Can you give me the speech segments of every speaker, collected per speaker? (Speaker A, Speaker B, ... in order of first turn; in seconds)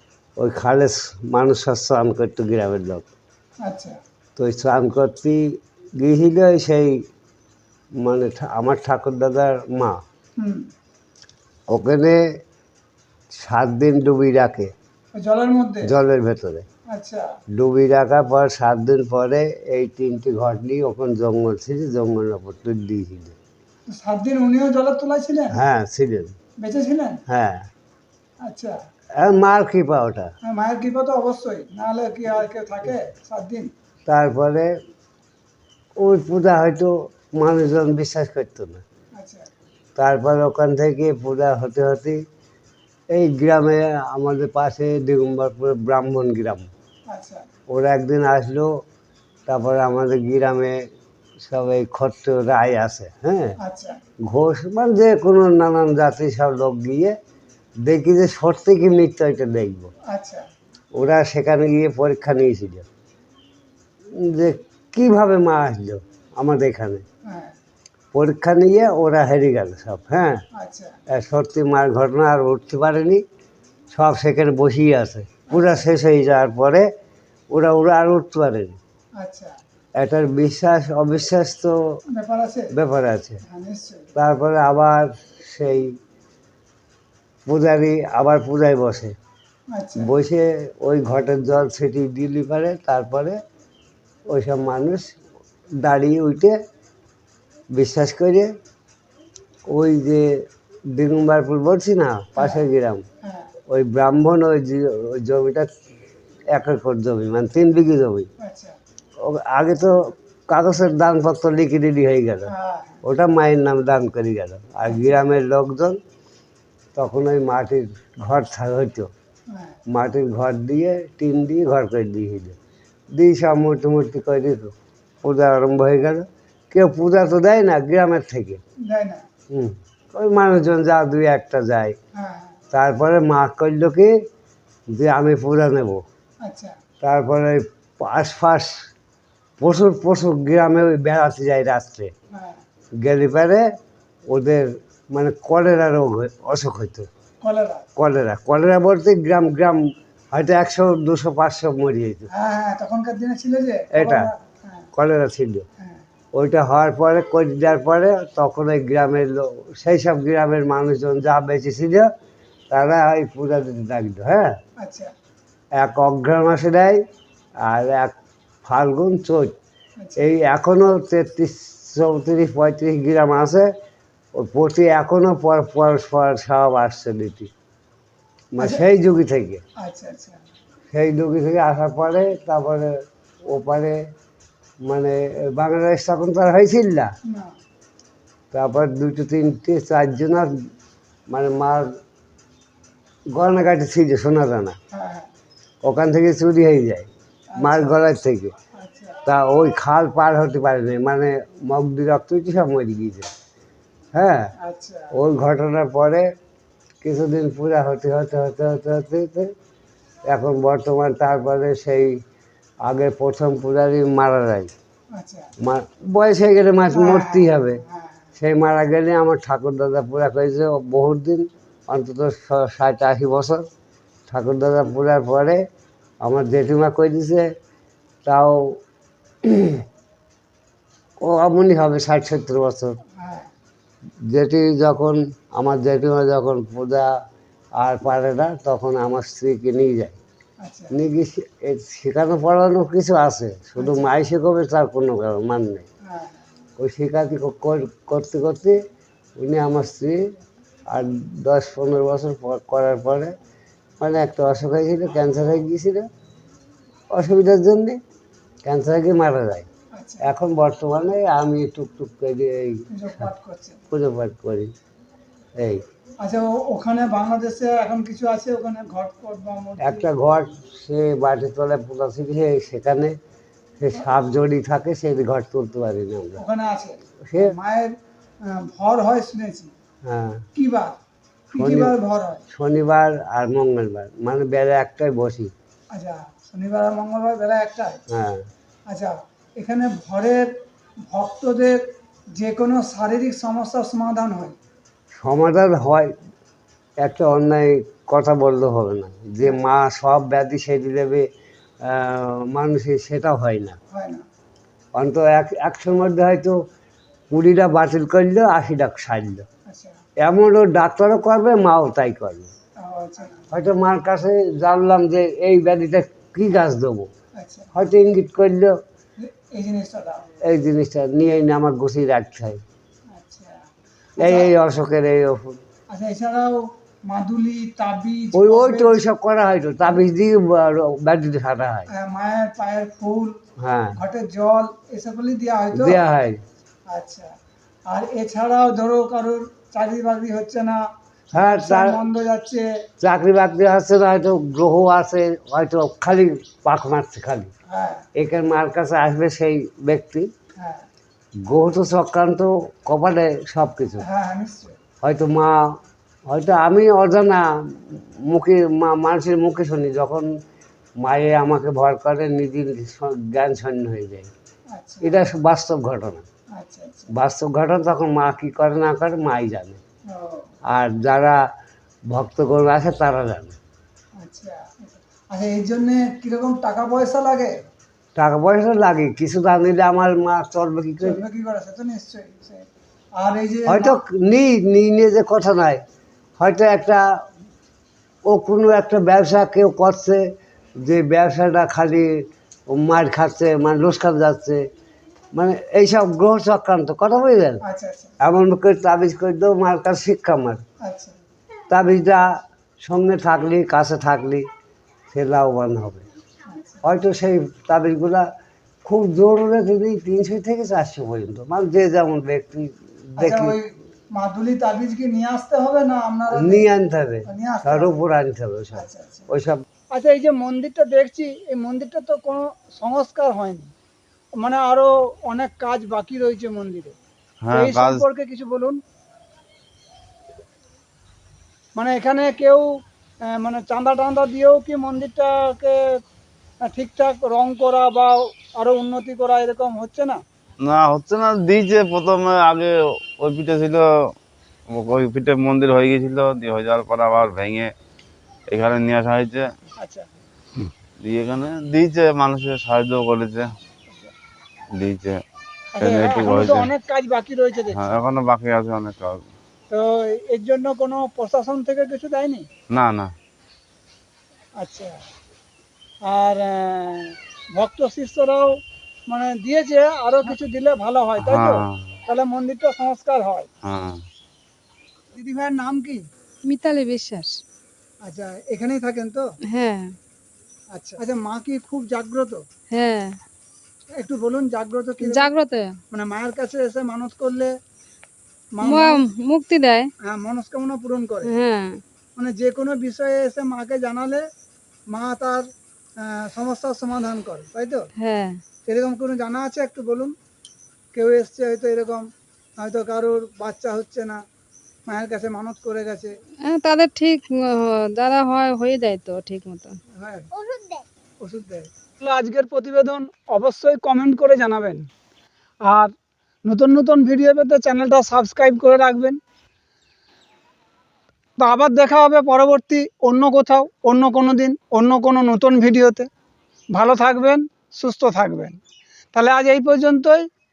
Speaker A: 0.4-3.1, 4.3-5.4, 6.0-7.0, 8.0-10.0, 11.7-12.2, 13.3-14.7, 15.8-16.6, 17.5-23.4, 25.5-26.3, 27.3-27.7, 29.2-30.3, 34.1-34.7, 36.0-38.8, 40.0-42.2, 43.1-46.7, 47.7-48.7, 49.5-50.8, 51.4-53.5, 54.2-57.1, 57.8-59.9, 61.0-62.9, 64.2-67.0, 68.1-70.4, 71.1-73.2, 73.9-76.8, 77.5-78.8, 80.0-81.7, 82.7-83.4, 84.2-85.9, 87.5-89.1, 90.0-93.4, 94.3-95.1, 95.8-96.5, 97.7-98.5, 99.7-100.3, 100.9-103.0, 103.7-105.7, 106.5-108.3, 109.2-112.5, 113.0-116.0, 116.9-119.1, 119.9-122.5, 123.2-128.6, 129.5-131.9, 132.7-134.1, 134.9-136.0, 137.0-138.7, 139.6-142.1, 143.0-143.6, 144.3-147.1, 148.0-149.8, 150.3-152.3, 153.9-154.3, 154.9-155.7, 156.3-162.1, 162.7-164.5, 165.8-167.0, 167.7-168.1, 168.6-169.5, 170.2-173.7, 174.3-177.5, 178.6-179.6, 180.9-182.9, 183.5-184.0, 184.8-187.1, 188.5-190.5, 191.3-191.9, 193.3-194.8, 195.8-198.5, 199.2-203.3, 204.1-204.5, 205.1-206.3, 207.0-209.5, 210.3-212.2, 212.8-214.7, 215.6-217.8, 218.3-223.6, 224.3-225.6, 226.2-227.5, 228.2-228.6, 229.4-229.8, 231.2-233.0, 234.3-237.1, 237.8-240.2, 240.9-245.8, 246.8-248.8, 249.4-250.2, 250.9-253.3, 254.0-256.1, 257.1-258.0, 258.6-259.7, 260.2-263.3, 263.9-264.7, 265.6-265.8, 269.8-273.1, 273.8-276.4, 277.2-277.5, 280.0-280.5, 281.6-281.9, 282.5-285.5, 288.1-288.5, 295.2-296.1, 297.0-301.2, 301.8-303.8, 304.9-306.6, 307.3-309.4, 310.2-312.5, 313.5-317.1, 317.7-318.7, 320.4-322.6, 324.2-325.6, 328.3-331.9, 333.6-334.0, 335.7-336.4, 341.3-342.0, 343.0-347.5, 348.1-350.3, 351.4-354.0, 355.0-355.6, 356.3-360.3, 361.0-364.3, 365.0-366.2, 367.1-369.8, 370.7-371.4, 372.1-373.6, 378.1-381.2, 383.7-385.8, 386.4-387.0, 388.3-390.2, 390.8-392.1, 392.7-394.6, 395.3-397.6, 398.2-400.6, 401.7-404.4, 405.1-406.1, 406.8-408.3, 408.8-413.6, 416.3-419.6
Speaker B: 3.6-4.0, 10.4-10.7, 15.2-15.9, 16.9-17.2, 23.9-25.5, 26.6-27.2, 28.4-28.8, 30.4-33.7, 39.2-39.5, 47.1-47.5, 53.6-54.0, 60.1-60.5, 67.3-67.5, 70.6-71.0, 75.5-75.8, 79.2-79.6, 82.1-82.7, 83.5-84.1, 89.7-90.1, 102.4-102.6, 103.2-103.5, 108.4-108.8, 112.5-113.0, 114.9-115.1, 119.5-119.8, 128.9-129.2, 132.2-132.6, 136.4-136.8, 142.3-142.6, 147.4-147.8, 152.3-154.9, 164.8-165.1, 179.8-180.4, 187.3-187.5, 194.9-195.3, 197.5-198.0, 198.7-199.2, 204.6-205.1, 215.1-215.5, 216.9-218.2, 233.2-233.5, 240.6-240.9, 243.8-244.1, 246.1-246.4, 259.9-260.2, 262.9-263.8, 266.2-270.1, 276.4-279.7, 280.5-281.0, 281.5-282.4, 285.9-288.0, 288.9-290.5, 291.1-291.8, 292.4-294.6, 303.9-304.2, 309.7-310.0, 312.8-313.5, 317.4-317.9, 319.2-320.2, 323.1-323.6, 324.2-324.5, 325.9-329.0, 331.9-333.4, 333.9-336.0, 336.9-337.3, 337.9-340.8, 341.3-342.6, 347.7-348.0, 350.6-350.9, 354.0-354.7, 364.7-365.2, 366.6-367.1, 370.1-370.5, 374.2-377.5, 381.0-384.0, 397.6-398.1, 400.8-401.2, 406.5-406.8, 413.2-416.7, 417.3-417.9, 418.8-419.3, 419.9-423.7, 424.4-426.9, 427.5-428.8, 431.8-436.0, 436.6-440.2, 449.8-450.1, 455.8-457.9, 459.7-462.5, 464.6-465.0, 466.1-473.5, 475.1-476.0, 478.0-479.2, 480.7-482.4, 483.9-485.3, 485.9-487.5, 488.6-489.0, 490.1-491.3, 492.2-494.2, 494.9-495.5, 496.0-497.9, 498.6-500.1, 500.9-504.2, 504.9-506.1, 510.0-510.3, 511.2-514.9, 515.6-515.9, 516.5-519.2, 521.4-526.1, 526.7-528.6, 529.1-530.3
Speaker C: 427.4-428.0, 440.6-444.1, 444.7-447.7, 448.5-449.5, 451.0-453.5, 454.7-455.2, 455.8-456.7, 457.7-459.3, 462.7-463.1, 471.2-471.9, 473.6-474.0
Speaker D: 476.4-477.4, 479.5-480.0, 482.7-483.2, 485.0-485.8, 488.6-489.9, 491.2-491.8, 498.0-498.4, 506.4-509.8, 510.5-510.8